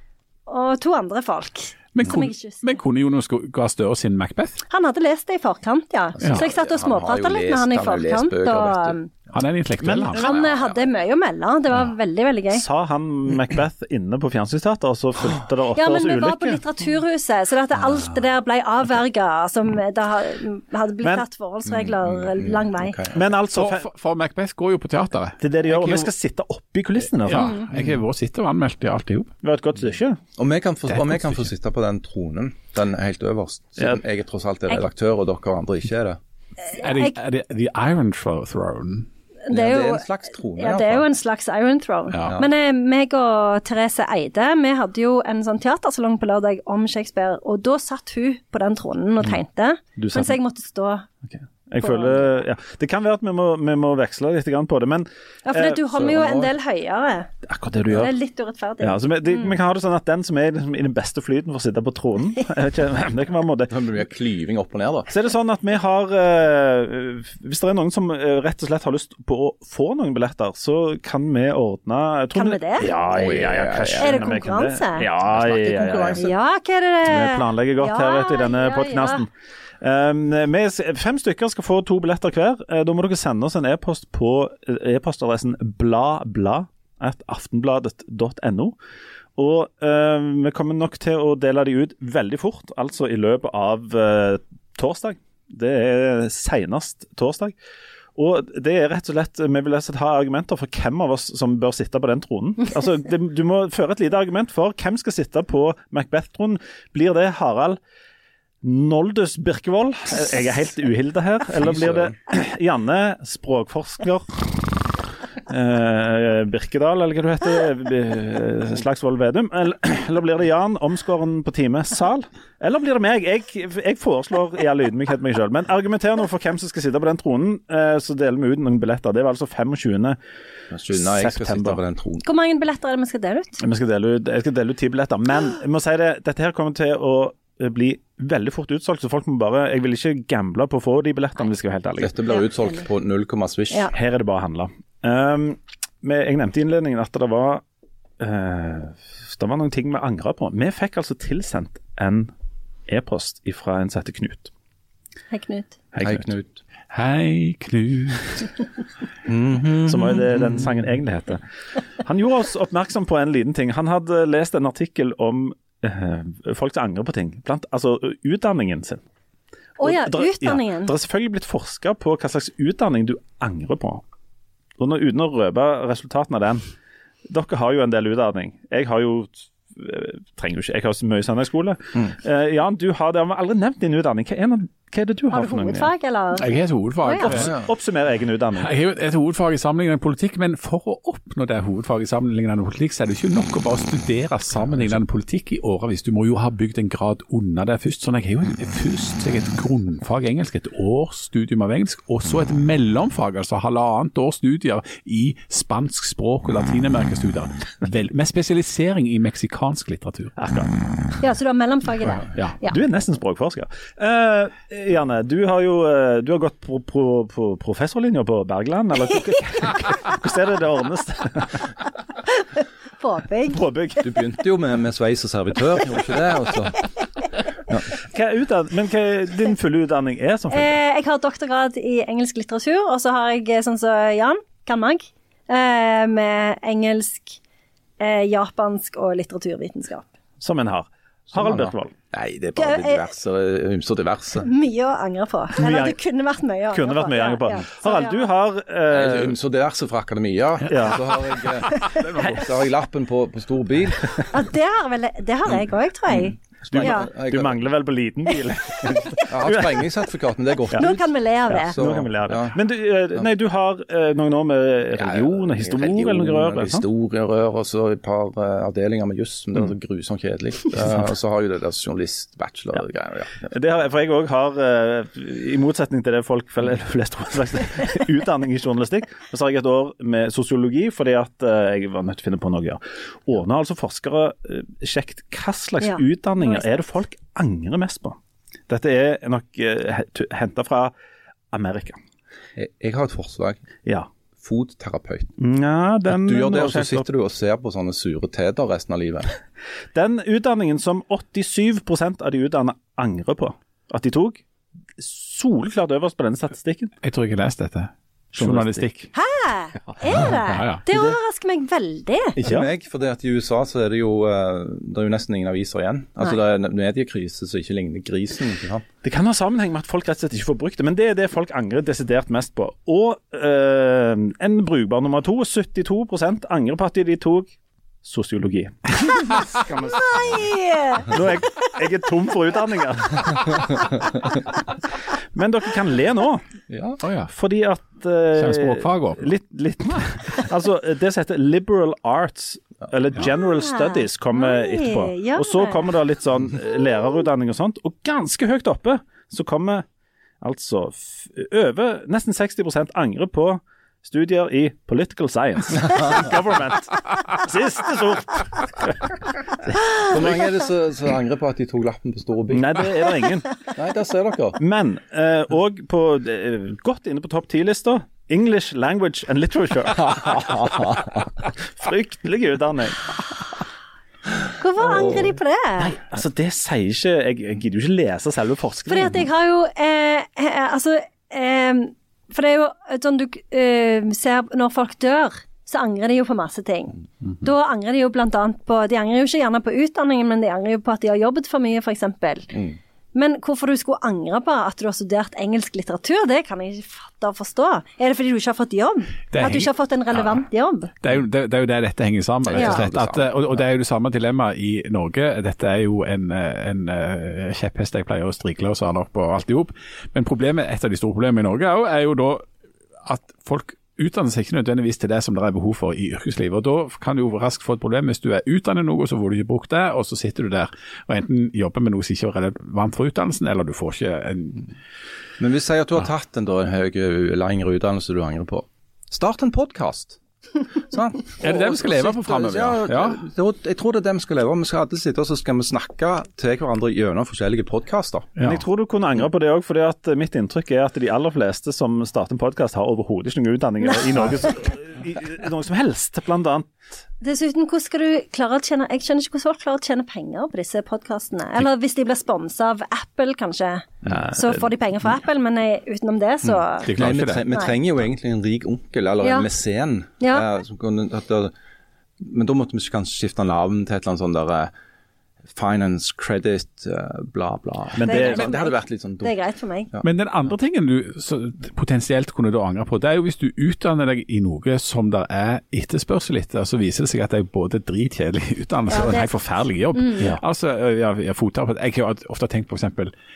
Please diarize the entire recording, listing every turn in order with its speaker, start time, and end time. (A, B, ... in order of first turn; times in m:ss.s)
0:00.5-0:02.7 A
0:01.9-0:04.6 B
0:04.7-0:09.1 A
0:06.2-0:09.0 C
0:09.3-0:10.3 B
0:09.9-0:10.3 D
0:10.0-0:10.8 C
0:10.1-0:12.6 A
0:12.5-0:16.6 D
0:15.8-0:23.0 A
0:21.7-0:23.2 C
0:23.1-0:23.9 D
0:23.5-0:26.1 B
0:25.4-0:27.6 D
0:27.2-0:29.3 B
0:29.4-0:30.2 D
0:30.4-0:36.2 C
0:30.9-0:31.5 B
0:36.7-0:37.2 A
0:36.7-0:39.1 B
0:39.5-0:51.1 A
0:39.5-0:41.1 C
0:42.1-0:42.4 B
0:42.2-0:42.5 C
0:50.0-0:50.4 D
0:51.3-0:55.8 D
0:51.8-0:52.3 A
0:55.4-0:57.3 A
0:55.9-0:56.5 C
0:57.4-0:58.1 D
0:57.9-0:59.5 A
0:58.8-1:03.7 D
1:03.7-1:05.1 C
1:05.1-1:16.2 D
1:12.3-1:12.9 A
1:13.0-1:14.2 C
1:14.0-1:15.1 A
1:15.2-1:16.4 C
1:16.2-1:19.2 A
1:17.0-1:19.3 D
1:19.8-1:28.8 D
1:29.4-1:37.5 D
1:38.2-1:47.8 D
1:48.6-1:54.8 D
1:51.6-1:52.1 C
1:55.5-2:10.2 D
2:10.7-2:12.2 C
2:10.9-2:11.8 D
2:12.2-2:13.6 A
2:13.6-2:22.1 D
2:22.0-2:23.9 C
2:22.3-2:22.8 A
2:23.9-2:27.6 D
2:28.2-2:32.3 D
2:32.9-2:34.5 D
2:35.3-2:35.8 A
2:35.9-2:36.3 D
2:36.0-2:36.6 C
2:36.9-2:38.5 B
2:39.2-2:40.6 C
2:39.8-2:41.4 D
2:42.0-2:49.0 D
2:49.8-2:50.9 A
2:49.8-2:54.0 D
2:54.8-2:56.6 D
2:57.3-3:05.9 D
3:05.3-3:06.5 A
3:06.4-3:07.6 B
3:07.0-3:07.4 A
3:07.2-3:08.7 D
3:07.4-3:07.7 C
3:08.6-3:30.4 B
3:30.4-3:30.8 D
3:31.2-3:32.8 A
3:32.6-3:41.8 D
3:43.0-3:43.6 A
3:43.5-3:44.1 D
3:44.0-3:46.9 C
3:47.7-3:48.0 C
3:48.0-3:50.8 D
3:50.5-3:57.4 A
3:58.0-4:00.1 A
4:00.4-4:01.9 D
4:01.3-4:04.5 C
4:02.6-4:03.1 A
4:04.4-4:08.3 A
4:05.6-4:06.0 D
4:06.7-4:09.4 D
4:08.9-4:14.4 C
4:10.7-4:12.5 D
4:14.3-4:17.1 A
4:15.5-4:17.6 C
4:16.7-4:19.9 D
4:18.9-4:22.6 C
4:20.7-4:21.8 A
4:21.5-4:26.8 D
4:25.0-4:33.5 C
4:33.5-4:48.2 D
4:45.8-4:46.7 A
4:48.7-4:50.9 D
4:51.5-4:52.0 D
4:52.6-4:53.6 C
4:54.4-4:55.3 C
4:55.4-4:57.1 D
4:56.1-4:59.3 C
4:59.9-5:04.4 D
5:05.0-5:06.9 D
5:07.0-5:09.1 B
5:08.3-5:08.8 D
5:09.1-5:12.4 A
5:10.2-5:10.8 B
5:12.4-5:18.8 C
5:12.4-5:12.7 D
5:19.0-5:27.5 D
5:28.0-5:29.4 D
5:29.2-5:31.8 A
5:29.6-5:30.2 C
5:31.1-5:33.8 D
5:33.3-5:34.4 C
5:35.3-5:36.4 D
5:36.7-5:37.0 C
5:37.0-5:37.3 B
5:37.3-5:49.8 D
5:38.4-5:39.3 B
5:43.3-5:45.9 A
5:50.4-5:59.2 D
5:55.8-5:56.3 C
5:59.9-6:02.9 C
6:02.5-6:03.6 D
6:03.7-6:04.6 C
6:04.6-6:13.2 D
6:09.9-6:11.3 C
6:14.6-6:16.0 A
6:14.8-6:15.4 C
6:15.8-6:19.3 D
6:18.9-6:32.5 A
6:32.5-6:32.8 C
6:33.1-6:40.9 A
6:39.3-6:40.4 B
6:41.0-6:52.5 B
6:42.4-6:43.6 C
6:42.5-6:42.8 A
6:53.0-7:04.7 B
7:05.4-7:10.2 C
7:10.9-7:18.3 C
7:11.4-7:13.2 B
7:18.4-7:18.6 B
7:18.4-7:26.8 D
7:23.8-7:24.3 A
7:27.2-7:36.9 A
7:34.1-7:34.6 D
7:36.4-7:41.5 C
7:36.8-7:37.5 B
7:39.2-7:39.5 A
7:42.2-7:44.7 C
7:45.5-7:49.4 C
7:48.0-7:48.5 D
7:48.0-7:49.9 A
7:50.0-8:03.1 B
7:58.9-7:59.3 A
7:59.9-8:00.3 A